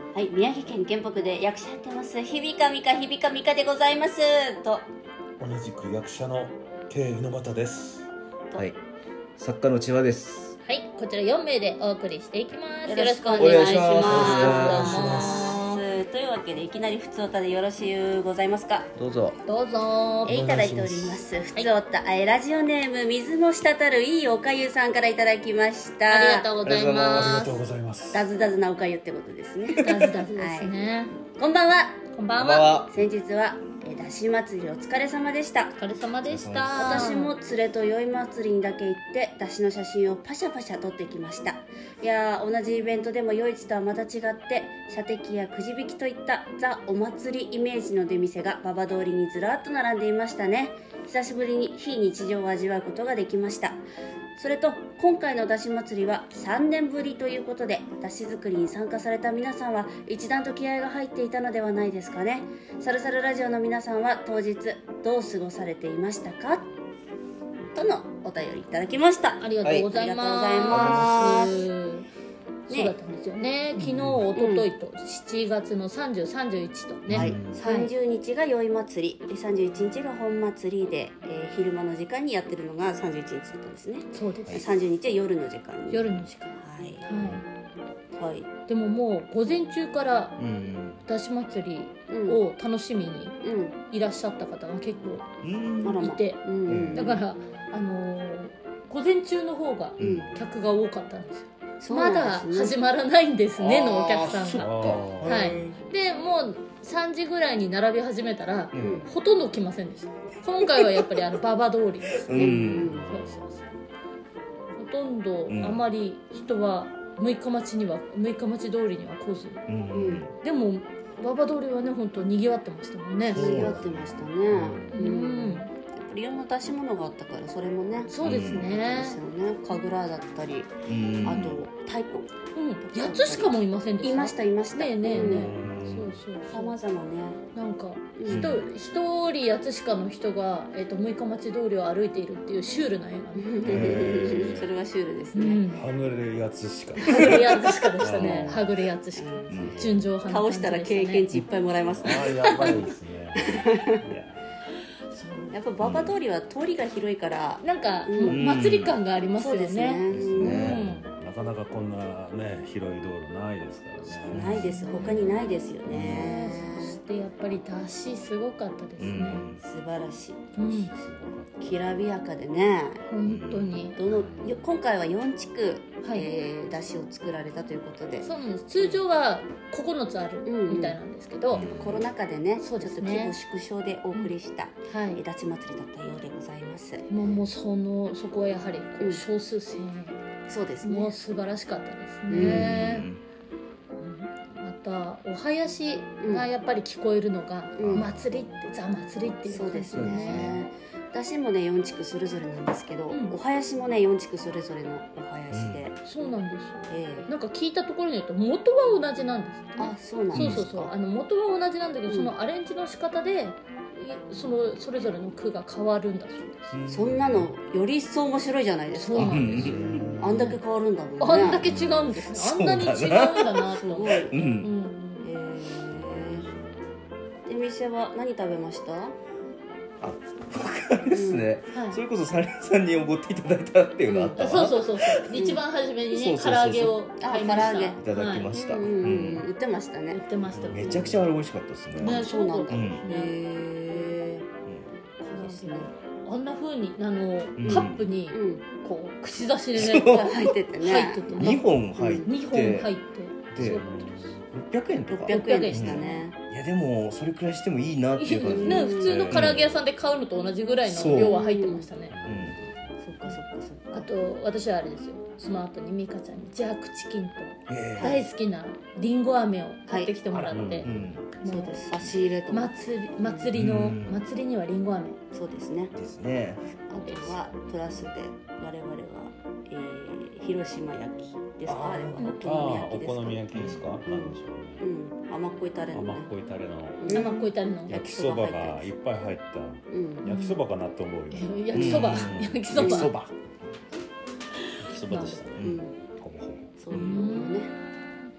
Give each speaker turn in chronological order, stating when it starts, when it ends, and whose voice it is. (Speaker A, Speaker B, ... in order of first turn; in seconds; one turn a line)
Speaker A: 0.1-4.9
Speaker B: 5.4-8.1
Speaker C: 9.4-10.6
Speaker D: 10.6-15.8
Speaker A: 12.9-18.9
Speaker C: 13.4-15.3
Speaker B: 14.1-15.6
Speaker C: 19.0-19.4
Speaker D: 19.4-20.4
Speaker A: 20.2-26.5
Speaker B: 20.3-21.2
Speaker D: 26.1-27.6
Speaker C: 26.6-27.6
Speaker B: 27.1-28.3
Speaker A: 28.1-32.0
Speaker D: 29.8-31.1
Speaker C: 29.9-30.1
Speaker D: 32.1-32.8
Speaker C: 32.4-33.0
Speaker A: 32.9-35.7
Speaker D: 35.8-37.4
Speaker C: 36.2-37.2
Speaker A: 36.7-53.8
Speaker A: 54.4-66.7
Speaker A: 67.7-71.6
Speaker D: 69.4-72.1
Speaker C: 69.6-69.9
Speaker C: 70.7-71.3
Speaker D: 72.7-77.9
Speaker A: 72.7-73.0
Speaker C: 73.8-74.2
Speaker A: 74.3-74.7
Speaker C: 77.1-77.6
Speaker A: 77.1-87.1
Speaker D: 84.1-84.7
Speaker D: 85.9-87.5
Speaker C: 86.0-86.3
Speaker C: 87.1-87.4
Speaker A: 88.2-88.5
Speaker D: 88.7-90.4
Speaker C: 90.4-91.0
Speaker D: 91.1-95.3
Speaker A: 92.1-92.4
Speaker A: 93.4-93.8
Speaker C: 95.4-96.0
Speaker A: 95.8-97.2
Speaker D: 96.0-113.6
Speaker C: 96.7-97.2
Speaker C: 100.0-100.5
Speaker A: 100.0-100.3
Speaker A: 101.8-102.8
Speaker C: 103.6-105.8
Speaker B: 104.6-105.7
Speaker C: 108.7-109.1
Speaker A: 108.8-109.1
Speaker C: 112.3-113.0
Speaker A: 112.3-113.0
Speaker B: 112.8-113.8
Speaker D: 114.8-119.6
Speaker C: 115.5-115.8
Speaker C: 119.7-120.3
Speaker A: 119.9-120.3
Speaker D: 120.4-123.6
Speaker A: 123.3-132.3
Speaker B: 123.3-124.9
Speaker C: 123.4-124.3
Speaker D: 124.9-125.7
Speaker D: 128.1-129.2
Speaker C: 128.2-128.7
Speaker C: 130.9-131.6
Speaker D: 132.5-136.8
Speaker A: 132.9-135.5
Speaker B: 135.1-136.2
Speaker C: 135.6-136.1
Speaker A: 136.5-137.4
Speaker D: 137.5-143.9
Speaker A: 138.2-138.6
Speaker C: 138.3-138.7
Speaker A: 143.3-145.6
Speaker C: 143.7-144.5
Speaker B: 143.7-144.7
Speaker D: 145.3-145.8
Speaker B: 145.8-147.4
Speaker D: 147.0-151.3
Speaker B: 148.0-148.8
Speaker C: 148.1-148.6
Speaker A: 149.2-149.6
Speaker C: 149.5-149.8
Speaker B: 149.6-150.1
Speaker A: 150.2-154.0
Speaker B: 151.9-154.4
Speaker D: 152.4-152.7
Speaker D: 155.1-155.6
Speaker A: 155.5-158.4
Speaker C: 155.8-156.2
Speaker D: 157.6-161.1
Speaker C: 158.2-159.0
Speaker A: 159.4-160.6
Speaker C: 160.1-160.9
Speaker B: 160.4-164.5
Speaker A: 164.3-167.0
Speaker C: 164.3-164.7
Speaker D: 164.5-169.5
Speaker C: 165.9-166.3
Speaker C: 169.0-169.6
Speaker A: 169.6-170.5
Speaker D: 170.6-170.9
Speaker B: 170.6-172.1
Speaker A: 171.6-173.1
Speaker D: 173.1-174.0
Speaker C: 173.2-173.9
Speaker A: 173.9-179.1
Speaker B: 174.1-174.7
Speaker D: 176.0-176.3
Speaker D: 178.2-181.7
Speaker A: 180.4-181.0
Speaker C: 181.5-182.1
Speaker A: 181.6-187.1
Speaker D: 182.6-183.4
Speaker D: 184.9-185.2
Speaker D: 187.1-190.2
Speaker C: 187.2-187.5
Speaker A: 189.0-189.2
Speaker A: 190.5-191.2
Speaker D: 190.8-193.1
Speaker A: 192.3-192.8
Speaker C: 192.3-193.2
Speaker D: 194.0-200.6
Speaker A: 196.2-196.5
Speaker A: 197.8-198.1
Speaker C: 197.8-198.3
Speaker A: 199.4-206.0
Speaker C: 199.9-200.6
Speaker D: 203.1-203.4
Speaker C: 205.5-205.9
Speaker D: 206.0-216.8
Speaker A: 206.9-207.3
Speaker A: 209.8-210.9
Speaker C: 210.3-210.9
Speaker A: 212.1-212.3
Speaker C: 216.7-217.4
Speaker A: 216.9-221.7
Speaker B: 217.2-217.5
Speaker D: 218.9-220.6
Speaker C: 219.2-220.0
Speaker B: 219.3-220.5
Speaker D: 221.2-225.3
Speaker B: 221.4-222.2
Speaker C: 222.3-223.6
Speaker A: 223.7-224.3
Speaker C: 224.3-224.7
Speaker A: 225.2-226.5
Speaker B: 225.9-227.2
Speaker A: 227.5-229.2
Speaker C: 230.0-235.3
Speaker A: 231.1-231.6
Speaker D: 231.7-232.0
Speaker A: 234.1-234.6
Speaker D: 234.4-238.5
Speaker A: 235.3-235.6
Speaker C: 236.1-237.0
Speaker A: 237.2-240.2
Speaker C: 238.0-239.5
Speaker D: 240.1-241.3
Speaker B: 240.5-241.3
Speaker C: 240.7-243.1
Speaker D: 242.0-243.3
Speaker A: 242.0-244.4
Speaker D: 245.2-251.7
Speaker A: 245.4-245.9
Speaker C: 247.6-248.1
Speaker A: 247.7-248.7
Speaker C: 249.8-250.5
Speaker A: 250.0-252.3
Speaker C: 251.3-252.9
Speaker D: 252.2-254.3
Speaker B: 253.5-254.4
Speaker C: 253.5-253.8
Speaker C: 254.5-259.7
Speaker A: 255.1-256.4
Speaker D: 255.3-256.3
Speaker D: 258.2-262.2
Speaker A: 258.4-259.2
Speaker B: 259.0-259.8
Speaker C: 260.9-261.4
Speaker A: 261.1-261.9
Speaker B: 262.1-263.0
Speaker C: 262.2-262.6
Speaker A: 263.0-264.1
Speaker D: 263.9-271.8
Speaker C: 267.7-268.2
Speaker A: 268.0-268.3
Speaker A: 269.9-270.2
Speaker C: 270.3-271.4
Speaker B: 270.5-271.1
Speaker A: 271.4-273.5
Speaker D: 272.5-275.2
Speaker C: 273.5-274.2
Speaker A: 275.3-275.9
Speaker C: 275.9-276.9
Speaker A: 276.9-286.3
Speaker D: 277.0-277.4
Speaker B: 281.7-284.9
Speaker D: 282.2-282.5
Speaker C: 283.5-284.0
Speaker B: 285.9-287.2
Speaker A: 287.0-288.9
Speaker D: 287.1-288.1
Speaker B: 287.9-293.3
Speaker A: 289.9-290.3
Speaker D: 290.2-290.6
Speaker D: 291.3-293.1
Speaker C: 291.7-292.5
Speaker A: 292.8-293.1
Speaker B: 294.8-296.8
Speaker D: 294.9-295.5
Speaker C: 295.6-295.8
Speaker A: 295.6-295.9
Speaker A: 296.8-297.7
Speaker D: 296.9-298.3
Speaker C: 296.9-297.2